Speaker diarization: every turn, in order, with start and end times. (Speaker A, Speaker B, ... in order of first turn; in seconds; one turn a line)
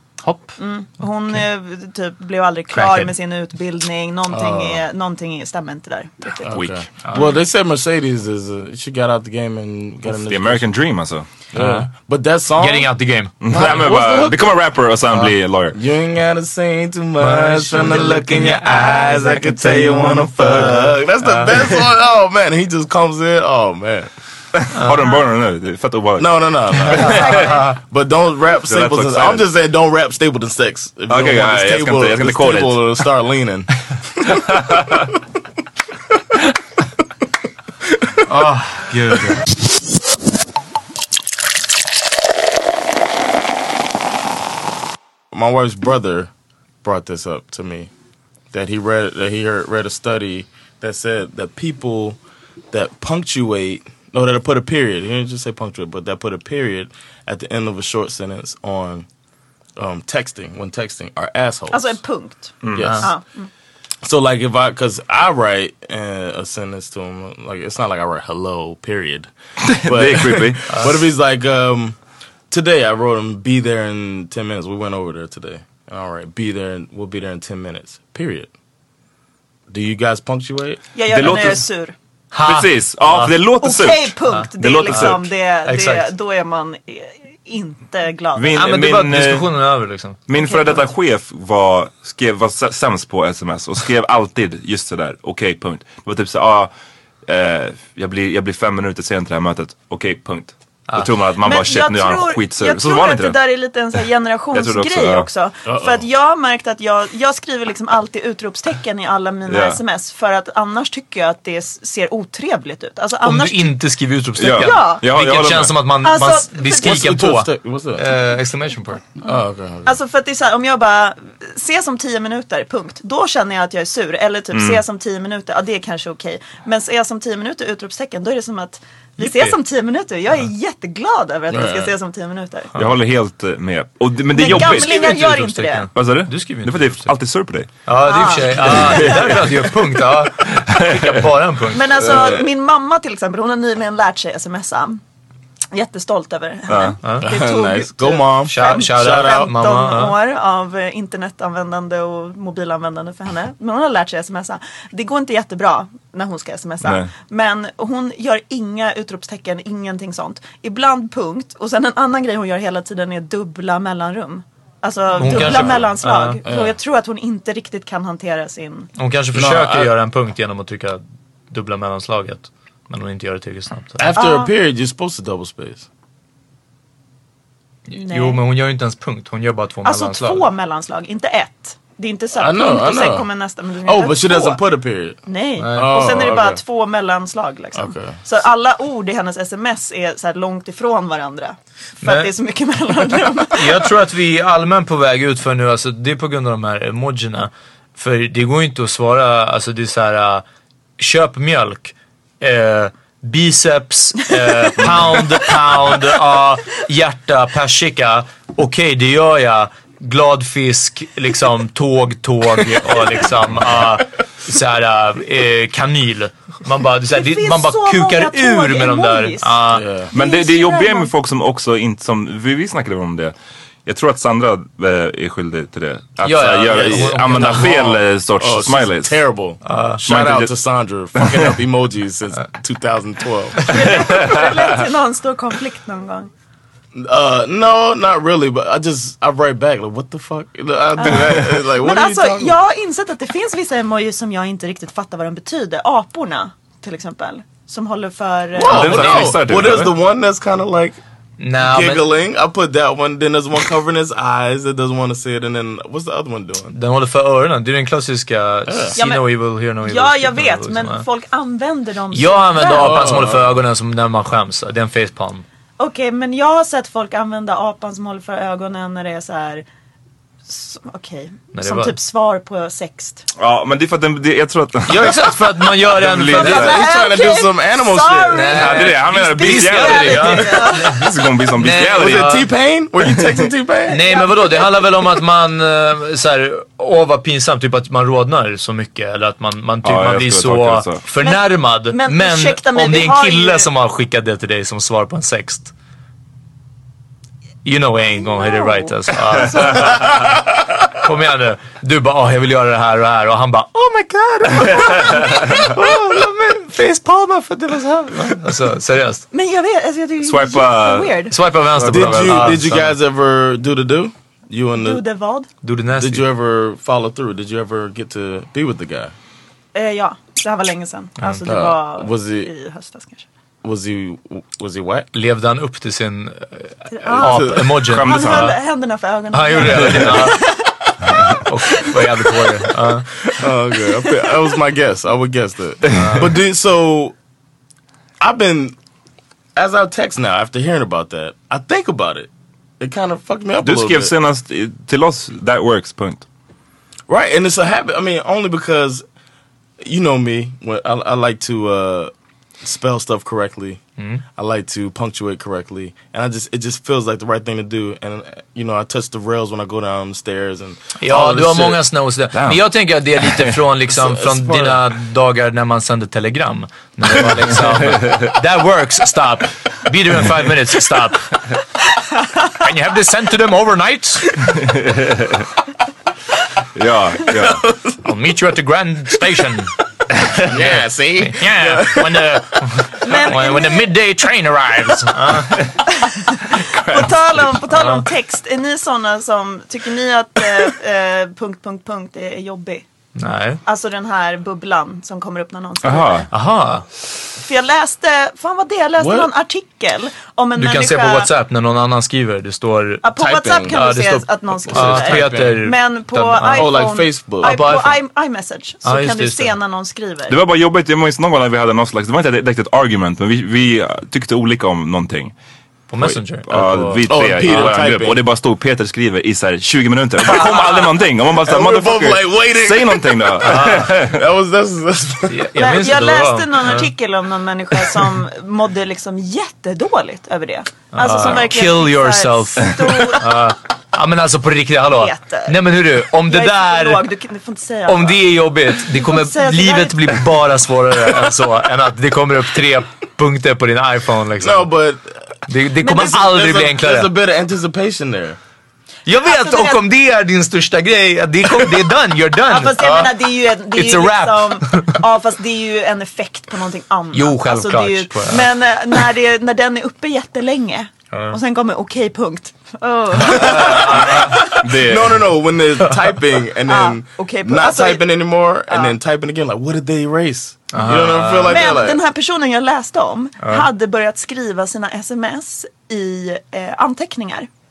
Speaker A: 0.2-0.6
Speaker B: 0.6-6.5
Speaker A: 2.7-3.1
Speaker C: 4.3-4.8
Speaker C: 6.4-10.7
Speaker D: 6.5-6.8
Speaker D: 10.1-11.3
Speaker C: 11.5-12.9
Speaker A: 11.6-11.9
Speaker A: 12.6-13.3
Speaker D: 13.4-15.8
Speaker C: 13.5-14.5
Speaker C: 15.7-24.1
Speaker A: 17.2-21.6
Speaker D: 24.6-27.6
Speaker C: 26.2-34.4
Speaker A: 26.9-27.7
Speaker B: 27.1-27.6
Speaker D: 28.6-29.5
Speaker D: 31.1-33.0
Speaker D: 34.3-35.1
Speaker C: 37.9-38.2
Speaker A: 38.3-39.4
Speaker C: 45.3-46.3
Speaker C: 46.8-47.9
Speaker C: 48.5-52.2
Speaker C: 52.7-59.1
Speaker C: 59.8-62.0
Speaker B: 61.7-63.5
Speaker D: 62.6-63.0
Speaker C: 62.7-63.1
Speaker A: 62.8-63.1
Speaker C: 64.0-69.3
Speaker D: 69.8-70.7
Speaker C: 69.9-72.0
Speaker C: 72.5-78.5
Speaker C: 79.7-80.8
Speaker B: 80.9-81.9
Speaker D: 81.1-81.7
Speaker A: 82.3-83.4
Speaker D: 82.4-85.3
Speaker B: 83.6-88.7
Speaker A: 84.3-86.1
Speaker D: 88.3-89.5
Speaker A: 88.5-90.2
Speaker D: 90.3-96.7
Speaker B: 90.3-90.9
Speaker D: 97.3-103.4
Speaker B: 101.4-113.8
Speaker D: 104.5-105.3
Speaker C: 105.7-106.0
Speaker D: 109.5-109.8
Speaker A: 113.2-119.1
Speaker D: 114.4-115.8
Speaker B: 114.5-115.0
Speaker B: 116.0-116.9
Speaker C: 116.7-118.1
Speaker C: 119.2-119.9
Speaker B: 119.9-132.7
Speaker D: 124.5-124.8
Speaker A: 129.3-129.5
Speaker C: 131.5-131.9
Speaker D: 132.8-135.2
Speaker B: 134.3-135.9
Speaker A: 134.4-137.1
Speaker D: 135.9-137.7
Speaker A: 137.8-141.9
Speaker B: 138.0-139.3
Speaker D: 138.5-139.5
Speaker D: 140.4-141.3
Speaker B: 141.7-145.0
Speaker C: 142.0-142.4
Speaker B: 145.7-168.9
Speaker D: 146.7-147.0
Speaker A: 147.0-147.3
Speaker C: 147.2-149.5
Speaker A: 148.4-150.2
Speaker D: 156.8-157.1
Speaker A: 165.2-166.4
Speaker C: 165.3-165.9
Speaker C: 166.4-166.8
Speaker A: 169.0-174.2
Speaker C: 169.3-169.9
Speaker C: 174.0-175.9
Speaker B: 174.2-174.5
Speaker A: 177.9-180.4
Speaker B: 178.0-178.4
Speaker B: 179.8-184.6
Speaker C: 182.3-183.3
Speaker C: 183.8-185.2
Speaker B: 185.3-193.8
Speaker A: 185.6-186.0
Speaker C: 185.7-186.6
Speaker C: 187.7-188.2
Speaker A: 192.0-192.3
Speaker A: 193.5-200.4
Speaker A: 201.0-219.9
Speaker B: 217.1-219.6
Speaker C: 219.7-220.1
Speaker B: 220.1-221.1
Speaker D: 220.1-223.3
Speaker D: 223.9-229.3
Speaker A: 226.2-228.0
Speaker C: 226.7-233.8
Speaker A: 229.6-230.0
Speaker D: 230.1-230.6
Speaker D: 231.2-231.6
Speaker B: 233.7-236.3
Speaker D: 233.7-234.8
Speaker C: 236.9-242.6
Speaker B: 241.0-249.1
Speaker C: 248.6-251.0
Speaker D: 248.6-249.9
Speaker A: 248.8-249.2
Speaker A: 251.4-252.1
Speaker C: 251.6-256.8
Speaker A: 256.7-261.1
Speaker C: 258.7-259.0
Speaker B: 259.0-263.1
Speaker A: 262.1-265.4
Speaker C: 262.6-263.5
Speaker B: 265.8-269.6
Speaker B: 270.5-273.3
Speaker A: 271.5-271.9
Speaker D: 273.4-275.2
Speaker A: 274.9-276.8
Speaker D: 275.9-276.9
Speaker B: 276.3-281.1
Speaker C: 276.4-278.8
Speaker A: 278.3-282.3
Speaker D: 278.6-282.5
Speaker C: 281.9-284.2
Speaker A: 283.9-295.7
Speaker B: 284.1-284.9
Speaker D: 289.8-291.0
Speaker B: 291.2-293.7
Speaker A: 297.6-300.0
Speaker B: 298.4-300.0
Speaker A: 301.0-309.2
Speaker B: 309.3-311.4
Speaker D: 310.2-311.2
Speaker A: 311.3-312.9
Speaker C: 311.8-315.0
Speaker D: 311.9-312.5
Speaker B: 314.8-315.5
Speaker A: 315.6-316.2
Speaker C: 315.9-319.1
Speaker B: 319.7-323.3
Speaker C: 321.4-322.5
Speaker C: 323.6-325.1
Speaker A: 325.1-328.6
Speaker B: 326.9-332.3
Speaker C: 327.2-327.8
Speaker D: 327.8-328.6
Speaker A: 329.3-330.4
Speaker C: 329.8-330.2
Speaker A: 331.4-333.1
Speaker C: 333.2-337.1
Speaker A: 335.9-336.4
Speaker C: 338.2-338.8
Speaker C: 339.6-342.3
Speaker C: 342.8-344.1
Speaker D: 343.6-346.2
Speaker C: 347.1-349.0
Speaker C: 349.8-353.8
Speaker A: 354.0-354.2
Speaker C: 354.4-361.8
Speaker A: 361.0-371.3
Speaker D: 362.3-362.7
Speaker C: 363.9-364.8
Speaker A: 372.6-374.4
Speaker D: 374.6-375.5
Speaker D: 376.8-377.6
Speaker C: 377.5-378.0
Speaker A: 378.1-379.7
Speaker C: 380.5-383.3
Speaker A: 380.6-385.7
Speaker B: 383.0-383.9
Speaker B: 385.9-392.8
Speaker D: 386.7-387.1
Speaker A: 387.7-388.0
Speaker A: 393.2-393.6
Speaker B: 393.6-396.3
Speaker D: 395.8-396.3
Speaker A: 396.3-396.9
Speaker B: 397.4-401.3
Speaker C: 399.0-399.3
Speaker A: 400.6-406.9
Speaker B: 403.0-410.4
Speaker C: 403.2-403.8
Speaker C: 404.7-405.6
Speaker C: 406.5-407.8
Speaker A: 407.4-408.0
Speaker A: 408.8-409.6
Speaker D: 410.3-415.3
Speaker A: 415.9-417.7
Speaker D: 416.4-424.2
Speaker C: 417.1-418.2
Speaker A: 420.3-420.8
Speaker C: 420.4-420.7
Speaker C: 421.4-425.5
Speaker A: 423.4-423.9
Speaker A: 425.3-426.9
Speaker B: 425.6-433.4
Speaker A: 430.9-437.1
Speaker B: 434.9-440.2
Speaker A: 437.9-444.7
Speaker C: 444.4-445.2
Speaker A: 445.5-447.1
Speaker C: 445.8-448.4
Speaker A: 449.1-455.0
Speaker B: 449.2-449.8
Speaker B: 452.5-464.7
Speaker A: 457.1-458.5
Speaker A: 463.2-464.4
Speaker C: 463.2-472.0
Speaker D: 464.6-465.3
Speaker B: 466.7-468.0
Speaker B: 468.7-469.0
Speaker A: 470.7-471.7
Speaker B: 471.5-477.5